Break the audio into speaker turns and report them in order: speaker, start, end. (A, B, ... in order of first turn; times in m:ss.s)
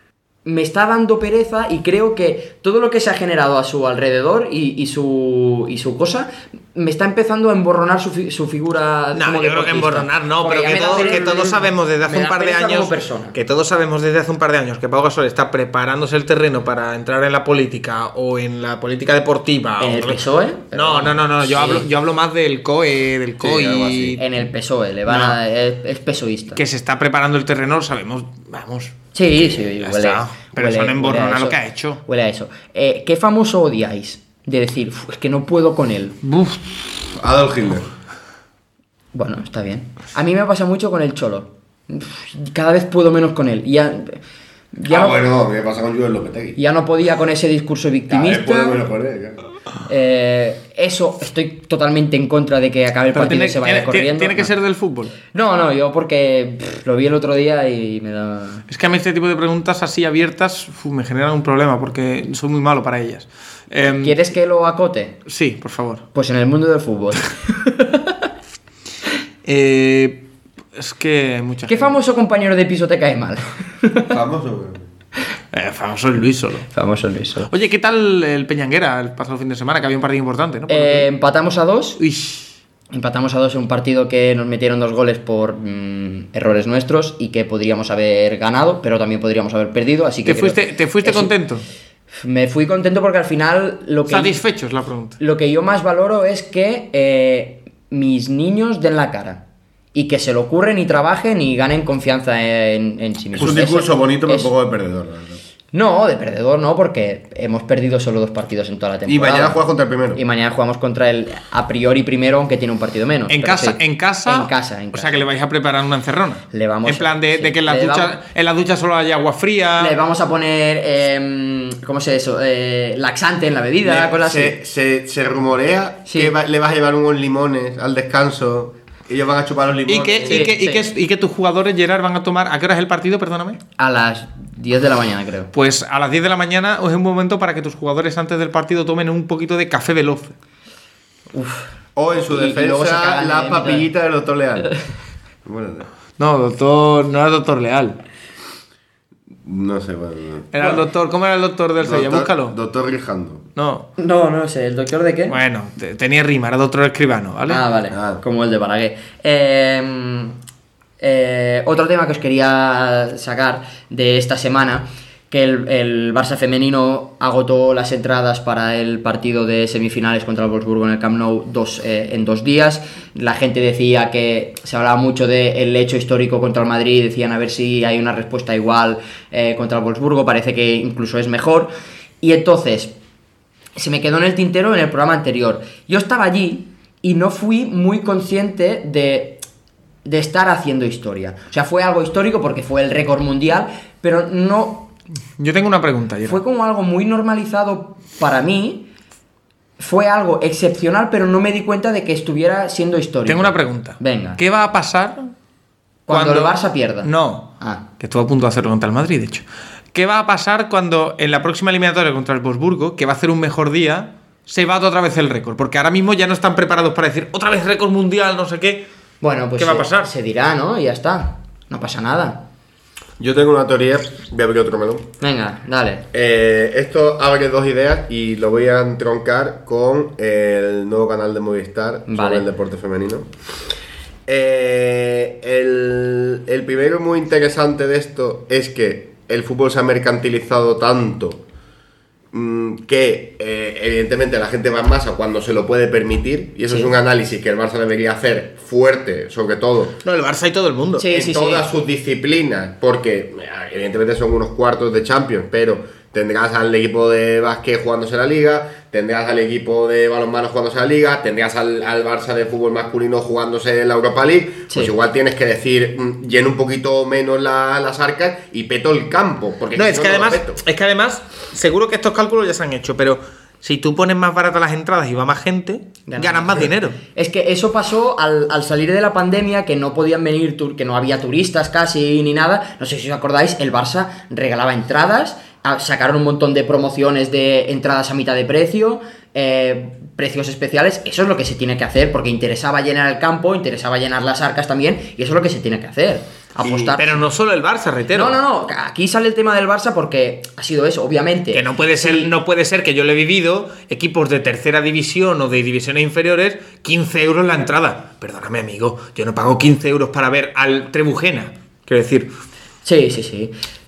0:00.4-0:13.4 A
0:09.1-0:20.2 B
0:19.8-0:21.8 A
0:20.7-0:24.2 B
0:23.4-0:24.2 C
0:24.2-0:26.6 A
0:25.1-0:25.4 B
0:26.6-0:29.0 B
0:29.1-0:36.2 A
0:29.8-0:32.0 B
0:36.3-0:36.6 B
0:37.0-0:37.9 C
0:39.1-0:44.2 A
0:44.7-0:45.2 A
0:44.9-0:46.6 C
0:46.6-0:48.8 A
0:48.1-0:49.4 C
0:49.8-0:54.5 A
0:53.1-0:55.1 B
0:55.3-0:58.6 A
0:58.7-1:04.2 B
1:04.0-1:05.2 A
1:05.2-1:06.0 B
1:06.1-1:08.2 A
1:09.4-1:11.9 B
1:11.7-1:14.1 A
1:14.1-1:14.9 C
1:15.5-1:16.7 B
1:16.7-1:17.5 A
1:17.5-1:21.1 B
1:20.7-1:22.0 A
1:22.0-1:22.5 B
1:22.9-1:31.3 A
1:30.2-1:31.6 B
1:32.2-1:34.4 A
1:34.1-1:35.2 B
1:35.2-1:44.5 A
1:43.4-1:45.4 C
1:45.7-1:49.6 A
1:49.1-1:50.2 C
1:50.1-1:55.2 A
1:53.3-2:00.0 B
1:56.5-1:58.2 A
1:59.8-2:04.6 A
2:03.8-2:10.5 C
2:06.1-2:06.3 A
2:09.9-2:13.6 B
2:10.3-2:10.8 A
2:13.8-2:15.5 A
2:15.5-2:20.3 B
2:21.3-2:21.7 A
2:22.0-2:24.7 C
2:22.3-2:23.9 A
2:25.4-2:25.9 C
2:26.2-2:28.0 B
2:29.4-2:30.8 C
2:30.5-2:32.6 B
2:31.8-2:33.4 C
2:33.6-2:33.9 B
2:34.0-2:35.4 A
2:35.3-2:37.6 B
2:37.5-2:40.4 A
2:37.9-2:38.2 C
2:41.0-3:02.9 A
3:03.7-3:09.4 A
3:10.0-3:14.9 A
3:15.4-3:16.4 B
3:16.2-3:18.9 A
3:19.8-3:24.4 A
3:23.2-3:25.3 B
3:26.1-3:27.8 A
3:26.1-3:38.9 B
3:39.2-3:42.4 A
3:39.6-3:40.1 B
3:43.2-3:45.1 C
3:45.2-3:46.0 A
3:46.1-3:53.3 C
3:52.1-3:52.4 A
3:54.3-4:01.4 C
4:02.3-4:10.0 C
4:10.0-4:11.1 B
4:11.0-4:11.7 A
4:11.1-4:30.6 C
4:29.7-4:37.0 B
4:36.1-4:57.2 A
4:56.6-4:57.0 C
4:57.0-4:58.4 B
4:58.1-5:02.3 A
5:01.5-5:12.3 B
5:12.8-5:13.5 A